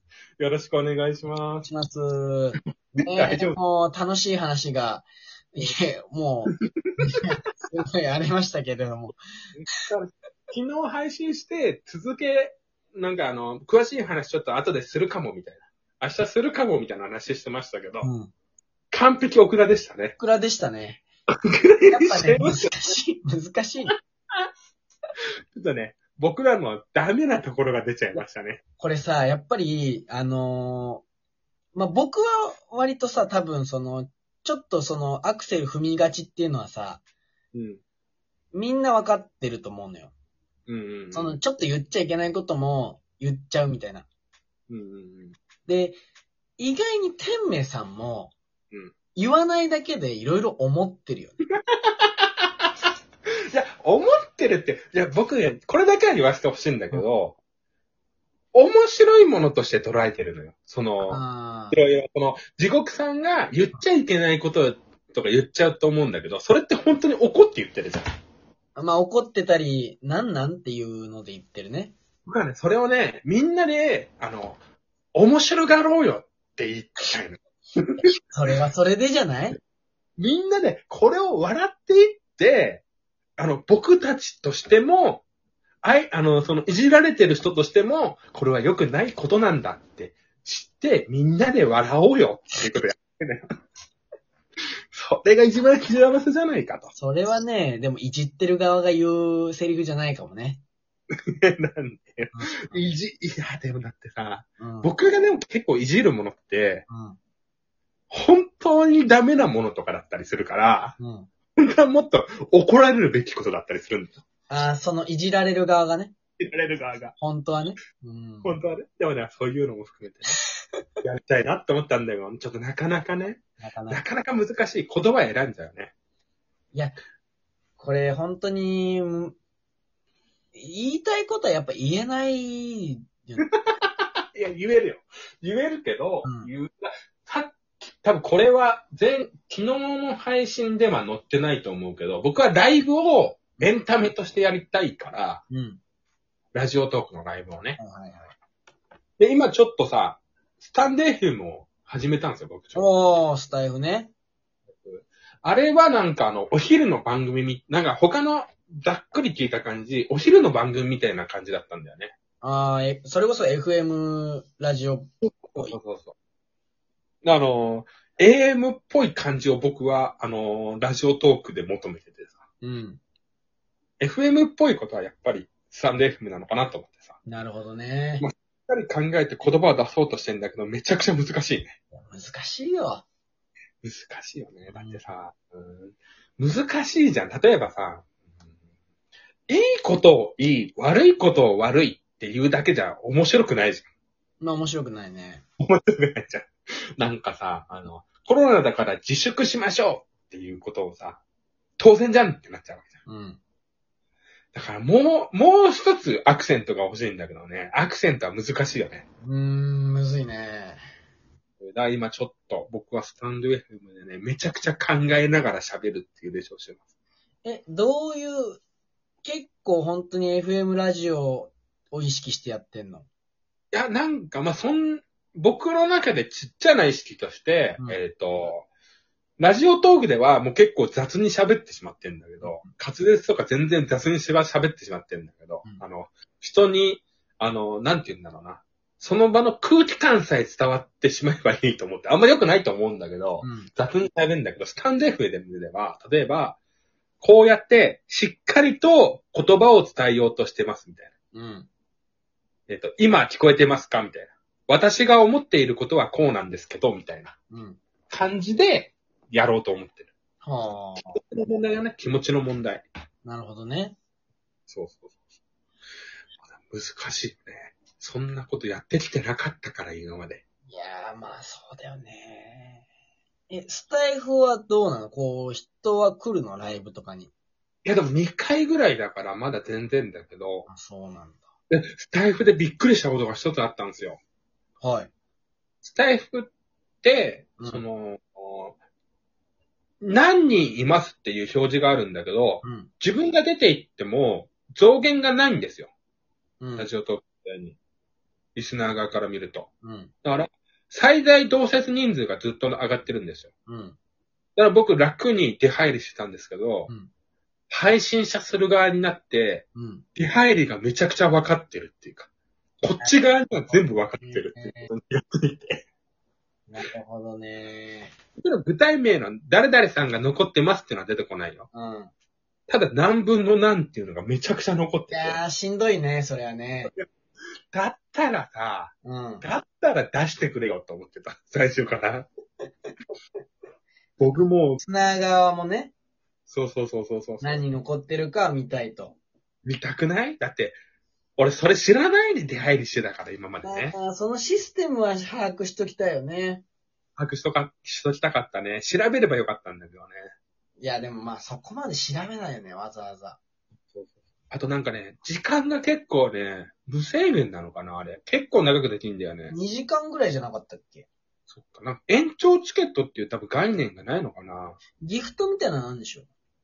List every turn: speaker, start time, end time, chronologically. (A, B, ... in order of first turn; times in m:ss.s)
0:00.4-0:01.7 A
0:01.7-0:09.2 B
0:03.0-0:03.6 A
0:06.8-0:07.2 A
0:09.5-0:18.1 A
0:18.0-0:18.3 B
0:18.9-0:20.2 A
0:20.2-0:21.0 B
0:21.4-0:22.7 A
0:21.9-0:24.0 B
0:25.5-0:28.6 A
0:28.8-0:31.0 B
0:31.7-0:37.0 B
0:37.5-0:37.8 A
0:38.5-0:40.1 B
0:40.7-0:41.4 A
0:41.1-0:44.1 B
0:44.7-0:45.4 A
0:45.7-0:46.0 B
0:46.6-0:48.3 B
0:49.2-0:51.4 B
0:51.5-0:52.3 A
0:53.5-0:57.4 A
0:58.5-1:08.0 A
1:01.1-1:01.8 B
1:08.8-1:12.0 B
1:12.3-1:14.6 A
1:15.2-1:18.1 A
1:18.3-1:19.6 B
1:20.2-1:22.8 A
1:23.4-1:25.2 A
1:25.8-1:33.4 A
1:34.9-1:36.9 A
1:37.0-1:40.6 B
1:41.3-1:46.8 A
1:42.3-1:42.9 B
1:44.6-1:44.9 B
1:46.9-1:47.2 B
1:48.1-1:51.0 A
1:51.0-1:51.3 B
1:51.6-1:54.2 A
1:54.5-1:56.1 B
1:56.4-1:57.2 A
1:57.2-1:58.6 B
1:58.4-2:00.4 A
2:00.3-2:00.8 B
2:01.0-2:05.9 A
2:03.6-2:04.0 B
2:07.8-2:09.4 B
2:10.5-2:13.5 B
2:13.5-2:25.4 A
2:16.2-2:16.5 B
2:25.5-2:25.8 B
2:26.5-2:27.8 A
2:27.8-2:28.3 B
2:29.2-2:32.9 A
2:32.8-2:34.1 B
2:34.8-2:42.1 A
2:42.4-2:45.8 B
2:45.2-2:46.2 A
2:47.2-2:52.4 A
2:52.6-2:53.0 B
2:54.0-2:57.2 A
2:57.2-2:58.3 B
2:58.2-3:01.8 A
3:01.9-3:03.0 B
3:03.8-3:08.1 A
3:04.7-3:05.1 B
3:09.5-3:13.9 A
3:14.4-3:15.4 B
3:15.6-3:21.2 A
3:21.8-3:23.0 A
3:23.1-3:23.4 B
3:24.5-3:29.0 A
3:29.2-3:30.8 B
3:31.6-3:36.8 A
3:37.4-3:38.6 B
3:39.2-3:43.1 B
3:43.7-3:48.7 A
3:49.4-4:06.6 A
3:52.4-3:52.7 B
4:03.4-4:03.7 B
4:07.2-4:11.1 A
4:11.3-4:11.7 B
4:12.7-4:17.4 A
4:17.5-4:17.8 B
4:18.1-4:20.1 A
4:20.4-4:21.2 B
4:21.1-4:22.8 A
4:23.2-4:24.0 B
4:24.7-4:25.1 A
4:26.5-4:30.4 A
4:30.7-4:32.8 B
4:33.5-4:37.3 B
4:37.8-4:40.7 A
4:40.7-4:41.4 B
4:41.7-4:44.2 A
4:44.8-4:45.1 B
4:45.8-4:46.5 A
4:47.0-4:48.8 A
4:47.6-4:47.8 B
4:50.0-4:55.9 A
4:52.6-4:52.9 B
4:56.6-4:56.9 B
4:56.8-4:57.8 A
4:58.6-4:59.7 A
4:59.8-5:00.1 B
5:00.2-5:03.5 A
5:03.7-5:04.0 B
5:04.6-5:06.9 A
5:07.7-5:12.3 A
5:09.8-5:10.0 B
5:12.8-5:15.8 A
5:13.0-5:14.9 B
5:16.7-5:18.1 B
5:18.4-5:21.7 A
5:21.7-5:22.1 B
5:22.7-5:25.4 A
5:25.1-5:26.9 B
5:27.7-5:32.3 A
5:29.0-5:29.5 B
5:34.2-5:34.8 A
5:34.8-5:35.9 B
5:36.5-5:37.6 A
5:37.4-5:39.2 B
5:39.6-5:40.8 A
5:41.4-5:44.0 A
5:43.6-5:46.6 B
5:47.2-5:50.3 A
5:50.8-5:53.4 B
5:53.9-5:59.5 A
5:59.5-6:01.1 B
6:01.5-6:04.8 A
6:05.0-6:06.3 B